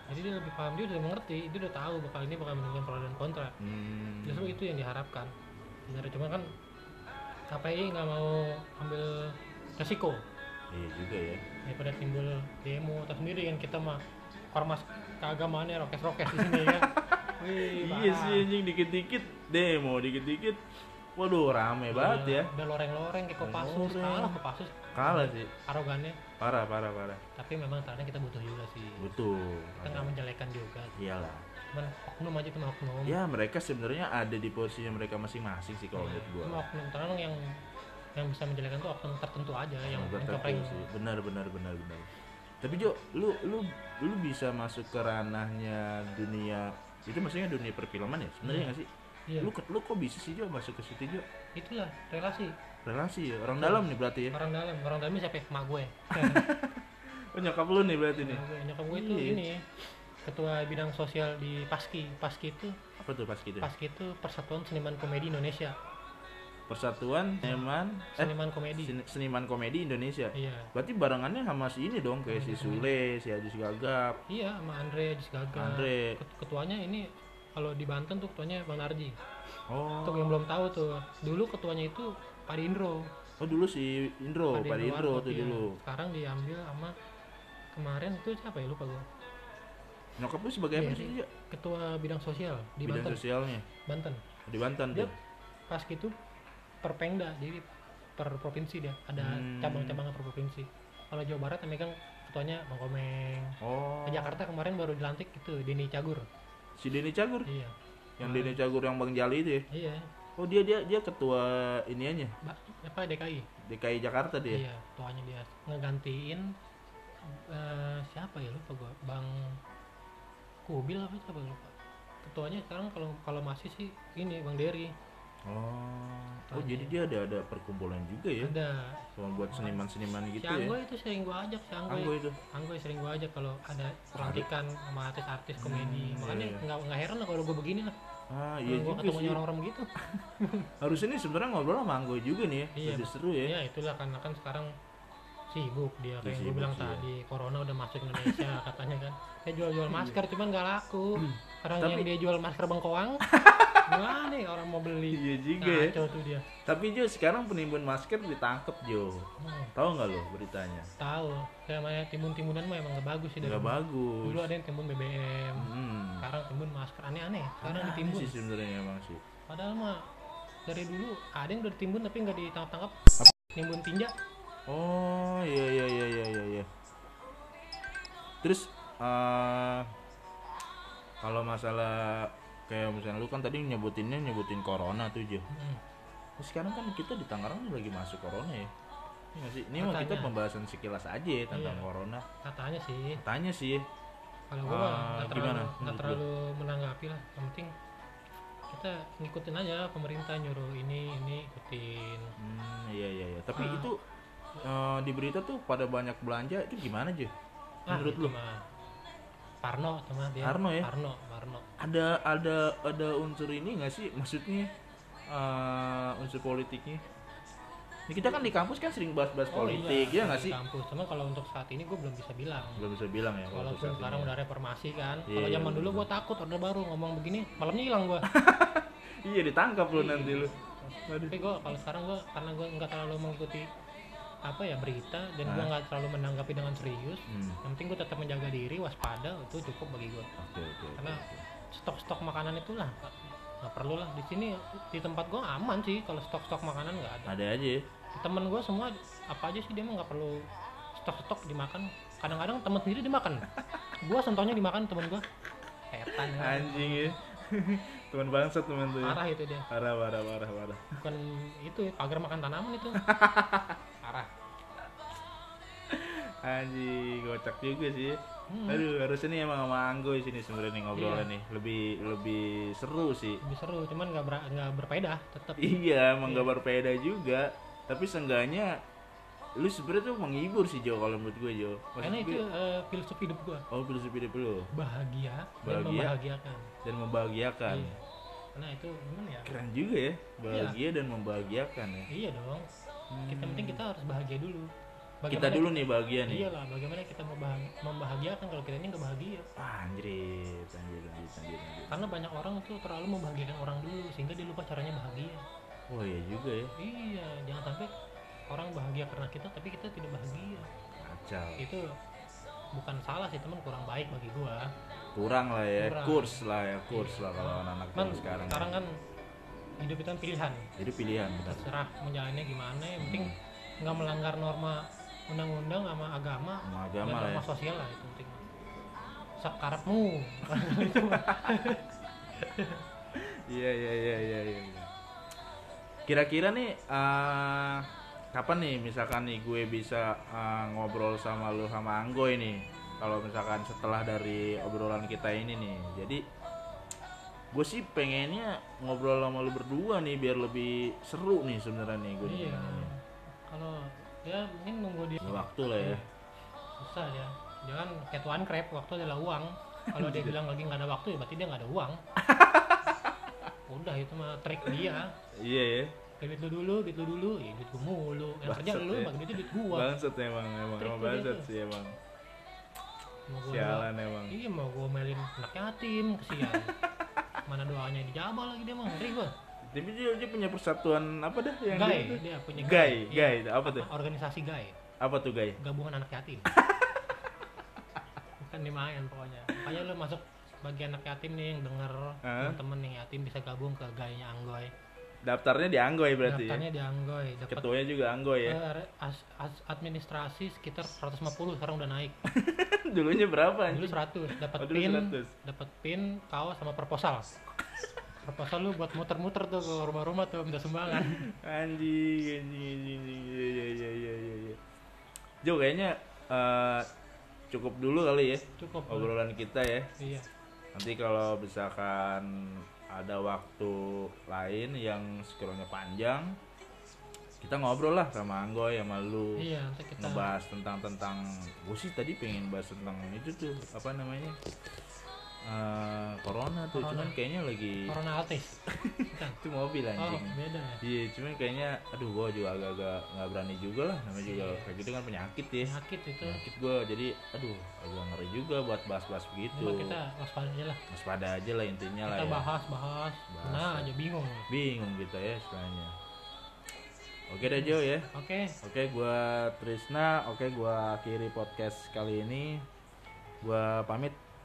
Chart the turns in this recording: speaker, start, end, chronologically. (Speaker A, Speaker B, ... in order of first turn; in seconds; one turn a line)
Speaker A: 0.1-3.6
Speaker B: 3.6-4.6
Speaker A: 4.2-5.3
Speaker A: 5.9-6.5
Speaker A: 7.5-10.2
Speaker B: 10.7-11.4
Speaker A: 11.7-14.0
Speaker A: 14.5-18.5
Speaker B: 16.3-20.6
Speaker B: 21.1-22.5
Speaker A: 21.9-26.2
Speaker B: 23.4-24.4
Speaker B: 24.9-25.5
Speaker B: 26.4-27.2
Speaker A: 27.4-29.1
Speaker B: 29.0-30.1
Speaker A: 29.8-30.9
Speaker B: 31.0-31.4
Speaker A: 31.7-33.2
Speaker B: 33.1-36.6
Speaker A: 36.0-37.5
Speaker A: 38.2-40.9
Speaker B: 39.8-42.1
Speaker B: 42.6-48.9
Speaker A: 48.4-48.7
Speaker B: 49.4-51.3
Speaker A: 51.6-52.6
Speaker B: 52.9-54.4
Speaker A: 53.5-56.5
Speaker B: 56.1-59.4
Speaker A: 58.2-59.6
Speaker A: 60.3-62.8
Speaker B: 63.0-63.7
Speaker A: 63.6-65.8
Speaker B: 66.7-74.2
Speaker A: 68.2-68.9
Speaker A: 70.3-70.7
Speaker A: 72.3-72.9
Speaker A: 74.3-79.2
Speaker B: 75.5-76.2
Speaker B: 79.7-80.4
Speaker A: 80.0-83.1
Speaker B: 83.4-85.8
Speaker A: 84.5-86.9
Speaker A: 87.7-89.1
Speaker B: 90.2-91.3
Speaker A: 90.8-93.2
Speaker B: 92.8-93.7
Speaker A: 93.9-94.2
Speaker B: 94.5-95.1
Speaker A: 95.7-96.2
Speaker A: 96.8-106.3
Speaker B: 99.2-100.0
Speaker B: 103.6-104.4
Speaker B: 106.8-107.5
Speaker A: 107.5-108.6
Speaker B: 108.2-109.7
Speaker A: 109.7-110.1
Speaker B: 110.4-112.3
Speaker A: 112.4-113.5
Speaker B: 113.6-114.6
Speaker A: 114.5-116.5
Speaker A: 117.3-119.6
Speaker A: 120.7-124.9
Speaker B: 125.5-128.6
Speaker A: 126.5-127.0
Speaker A: 128.4-129.8
Speaker B: 129.2-130.8
Speaker A: 130.4-137.9
Speaker B: 131.9-132.4
Speaker B: 134.2-134.5
Speaker B: 135.6-136.6
Speaker B: 138.3-139.4
Speaker A: 138.6-140.7
Speaker B: 140.8-143.6
Speaker A: 142.8-144.7
Speaker A: 145.5-153.3
Speaker B: 146.2-147.1
Speaker B: 149.9-150.2
Speaker B: 151.2-152.1
Speaker B: 153.2-154.0
Speaker A: 153.9-156.5
Speaker B: 155.1-156.1
Speaker B: 156.7-160.9
Speaker A: 159.4-159.7
Speaker A: 161.0-168.3
Speaker B: 163.4-164.5
Speaker B: 165.6-166.3
Speaker B: 167.6-169.2
Speaker A: 169.5-170.1
Speaker A: 170.7-173.0
Speaker A: 173.6-174.1
Speaker B: 174.7-176.7
Speaker B: 178.4-179.9
Speaker B: 181.2-185.5
Speaker A: 185.5-185.8
Speaker B: 186.4-188.7
Speaker B: 189.3-192.2
Speaker A: 189.8-190.3
Speaker A: 191.5-191.9
Speaker A: 192.4-193.2
Speaker B: 193.2-193.9
Speaker A: 194.5-197.7
Speaker B: 194.7-196.2
Speaker A: 198.7-202.3
Speaker B: 202.4-204.0
Speaker A: 203.6-203.9
Speaker B: 204.6-207.3
Speaker A: 207.9-208.7
Speaker B: 207.9-208.4
Speaker A: 209.6-211.7
Speaker B: 210.4-210.9
Speaker B: 211.8-214.7
Speaker B: 215.3-217.0
Speaker B: 218.1-220.6
Speaker A: 219.5-222.8
Speaker B: 222.8-224.3
Speaker A: 223.5-228.3
Speaker B: 225.3-226.1
Speaker B: 228.3-230.5
Speaker A: 229.9-233.7
Speaker B: 231.1-231.4
Speaker A: 234.5-240.3
Speaker B: 235.4-235.7
Speaker B: 237.3-237.6
Speaker B: 240.4-241.4
Speaker A: 241.0-247.3
Speaker B: 247.3-247.9
Speaker A: 248.1-253.5
Speaker A: 254.0-255.2
Speaker A: 255.9-257.2
Speaker B: 256.2-261.0
Speaker A: 259.0-259.7
Speaker A: 261.0-263.1
Speaker B: 263.0-263.8
Speaker A: 264.0-264.3
Speaker B: 265.9-273.4
Speaker A: 268.5-268.9
Speaker A: 270.9-271.3
Speaker A: 273.4-276.5
Speaker B: 275.6-278.8
Speaker B: 279.6-282.4
Speaker A: 282.0-283.7
Speaker B: 283.7-284.7
Speaker A: 284.7-286.7
Speaker B: 285.6-286.1
Speaker B: 286.8-287.9
Speaker A: 287.7-288.0
Speaker A: 288.6-289.5
Speaker B: 289.5-292.1
Speaker A: 290.5-290.8
Speaker A: 292.1-292.7
Speaker B: 293.1-293.8
Speaker A: 293.3-294.7
Speaker A: 295.2-299.5
Speaker B: 295.3-296.5
Speaker B: 299.6-302.1
Speaker A: 301.9-305.4
Speaker B: 305.9-306.8
Speaker A: 306.8-307.9
Speaker A: 308.5-310.7
Speaker B: 311.0-311.6
Speaker A: 311.6-311.9
Speaker A: 312.8-314.7
Speaker B: 315.1-318.8
Speaker A: 315.8-319.0
Speaker A: 319.8-320.7
Speaker B: 320.8-321.7
Speaker A: 321.4-328.4
Speaker B: 323.0-323.4
Speaker B: 326.6-327.5
Speaker A: 329.4-331.9
Speaker B: 330.7-331.5
Speaker A: 332.4-332.8
Speaker B: 333.1-334.9
Speaker B: 336.1-346.2
Speaker B: 347.5-352.9
Speaker A: 352.2-356.1
Speaker B: 355.2-356.0
Speaker A: 356.8-362.0
Speaker B: 359.9-360.4
Speaker B: 362.2-363.2
Speaker A: 363.7-365.1
Speaker B: 364.7-365.9
Speaker A: 366.2-369.9
Speaker B: 368.5-372.0
Speaker A: 370.8-371.5
Speaker A: 373.3-376.7
Speaker B: 373.5-374.4
Speaker A: 377.5-379.4
Speaker B: 379.6-383.9
Speaker A: 381.7-384.8
Speaker B: 385.0-385.6
Speaker A: 385.6-386.5
Speaker A: 388.4-394.7
Speaker B: 392.2-392.6
Speaker B: 395.2-396.6
Speaker A: 396.2-397.7
Speaker B: 397.5-398.6
Speaker A: 398.4-402.2
Speaker B: 402.3-405.3
Speaker A: 403.7-407.3
Speaker A: 408.2-411.3
Speaker B: 410.9-414.6
Speaker B: 415.4-416.9
Speaker B: 417.5-419.9
Speaker A: 418.6-419.1
Speaker A: 420.0-420.3
Speaker B: 420.7-426.4
Speaker B: 427.4-434.4
Speaker A: 429.4-430.3
Speaker B: 435.4-437.9
Speaker A: 436.8-437.2
Speaker A: 437.9-439.4
Speaker B: 438.7-450.0
Speaker A: 440.0-440.8
Speaker A: 444.2-444.7
Speaker A: 445.6-446.4
Speaker A: 449.6-450.8
Speaker B: 450.9-452.5
Speaker A: 452.1-454.5
Speaker B: 453.3-453.9
Speaker B: 454.5-455.9
Speaker B: 457.3-458.1
Speaker A: 457.4-458.6
Speaker B: 458.6-462.7
Speaker B: 463.4-464.2